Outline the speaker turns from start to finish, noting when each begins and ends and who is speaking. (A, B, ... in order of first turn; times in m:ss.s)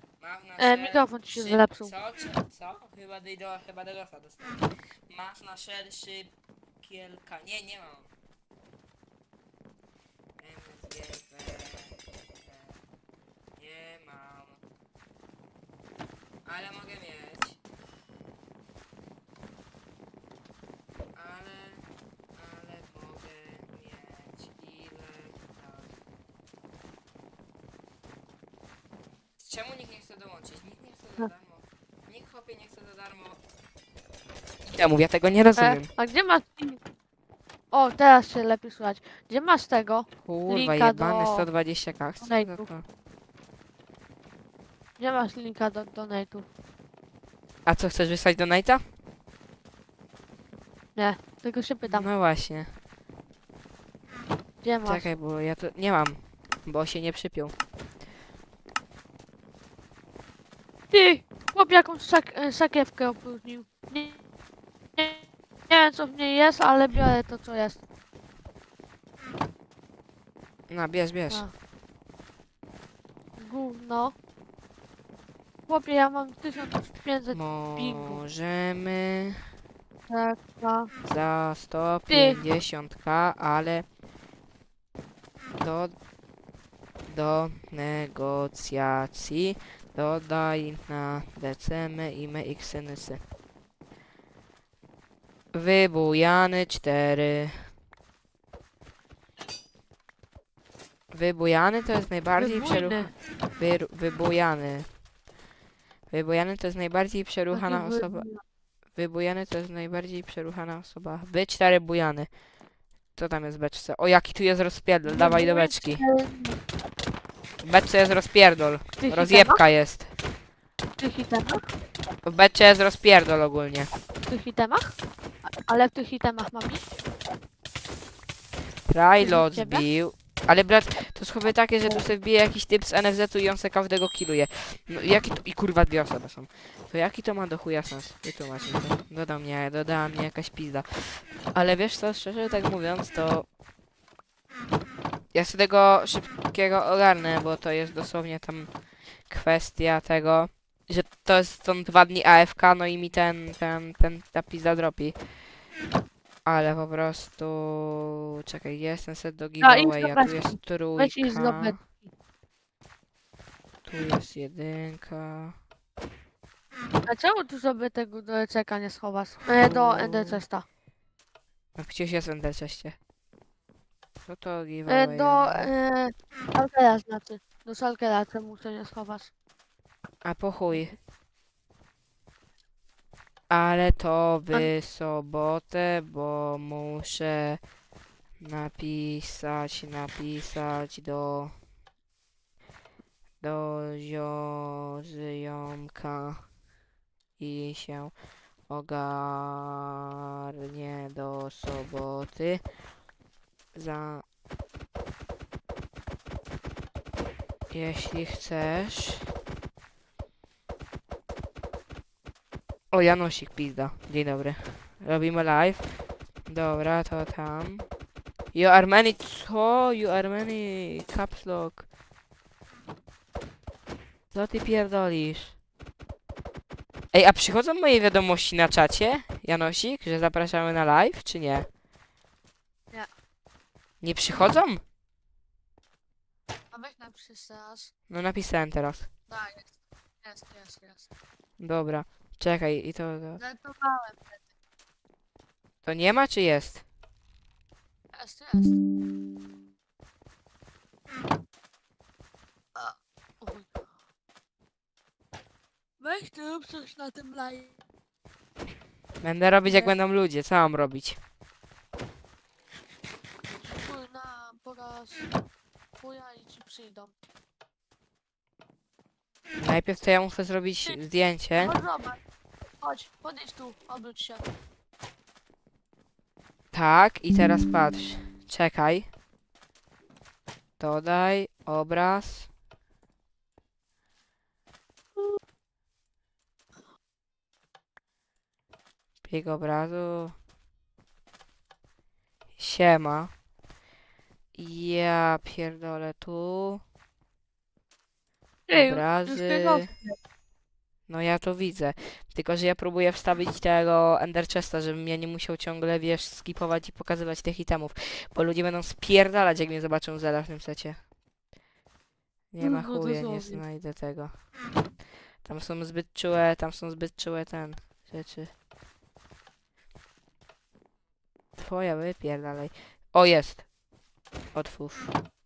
0:00.2-0:08.1 A
0:00.6-0:01.9 B
0:10.4-0:12.8 A
0:13.6-0:14.6 A
0:16.4-0:17.6 A
0:21.2-0:25.9 A
0:29.4-0:33.4 A
0:34.6-0:35.9 A
0:35.6-0:36.8 B
0:37.7-0:41.5 B
0:40.2-0:42.8 A
0:42.2-0:42.7 B
0:45.0-0:46.5 B
0:47.7-0:48.8 A
0:51.0-0:52.1 B
0:51.9-0:52.7 A
0:54.6-0:55.1 B
0:54.8-0:57.6 A
1:00.9-1:04.2 B
1:05.0-1:07.8 B
1:10.7-1:11.5 A
1:13.4-1:14.2 B
1:15.7-1:18.2 B
1:17.3-1:19.4 A
1:20.1-1:20.9 B
1:21.0-1:23.9 A
1:22.1-1:22.4 B
1:25.6-1:26.0 A
1:27.1-1:33.2 A
1:35.5-1:37.7 A
1:41.1-1:44.9 A
1:42.4-1:43.1 B
1:46.1-1:48.2 A
1:47.5-1:48.4 B
1:49.0-1:52.3 A
1:53.1-1:56.0 A
1:55.0-1:56.6 B
1:57.6-2:00.1 A
1:59.0-1:59.6 B
2:01.0-2:01.6 B
2:02.3-2:03.9 A
2:04.3-2:05.0 B
2:05.6-2:07.0 B
2:08.9-2:23.5 A
2:09.2-2:09.8 B
2:25.3-2:28.7 A
2:29.2-2:35.2 A
2:36.5-2:41.8 A
2:39.6-2:42.1 B
2:43.8-2:45.6 A
2:47.1-2:50.6 B
2:49.6-2:50.4 A
2:51.8-2:53.0 A
2:54.2-2:55.7 A
2:54.9-2:59.3 B
3:00.2-3:01.0 A
3:03.5-3:07.6 A
3:08.4-3:11.5 A
3:13.4-3:16.4 A
3:17.4-3:18.1 A
3:18.7-3:22.6 A
3:23.7-3:24.2 A
3:27.7-3:29.3 A
3:32.9-3:36.0 A
3:36.5-3:37.9 A
3:38.5-3:41.9 A
3:44.3-3:45.6 A
3:47.1-3:51.7 A
3:54.0-3:54.8 A
3:56.7-3:57.9 B
3:58.1-3:59.1 A
3:59.3-4:01.1 B
4:01.6-4:03.4 A
4:03.4-4:04.4 B
4:05.8-4:06.8 A
4:08.1-4:08.8 B
4:12.8-4:13.8 B
4:16.0-4:17.7 B
4:19.2-4:21.2 A
4:19.7-4:19.9 B
4:23.5-4:25.3 B
4:26.0-4:27.1 B
4:29.6-4:31.8 A
4:31.6-4:32.2 B
4:32.8-4:34.5 B
4:36.7-4:39.1 A
4:40.8-4:42.5 A
4:49.3-4:50.4 A
4:52.6-4:53.3 A
4:54.6-4:56.8 A
4:58.7-5:00.2 B
4:58.7-4:59.9 A
5:01.1-5:11.0 A
5:12.5-5:14.4 A
5:12.6-5:13.6 B
5:15.4-5:18.5 A
5:21.6-5:23.7 A
5:24.5-5:25.1 A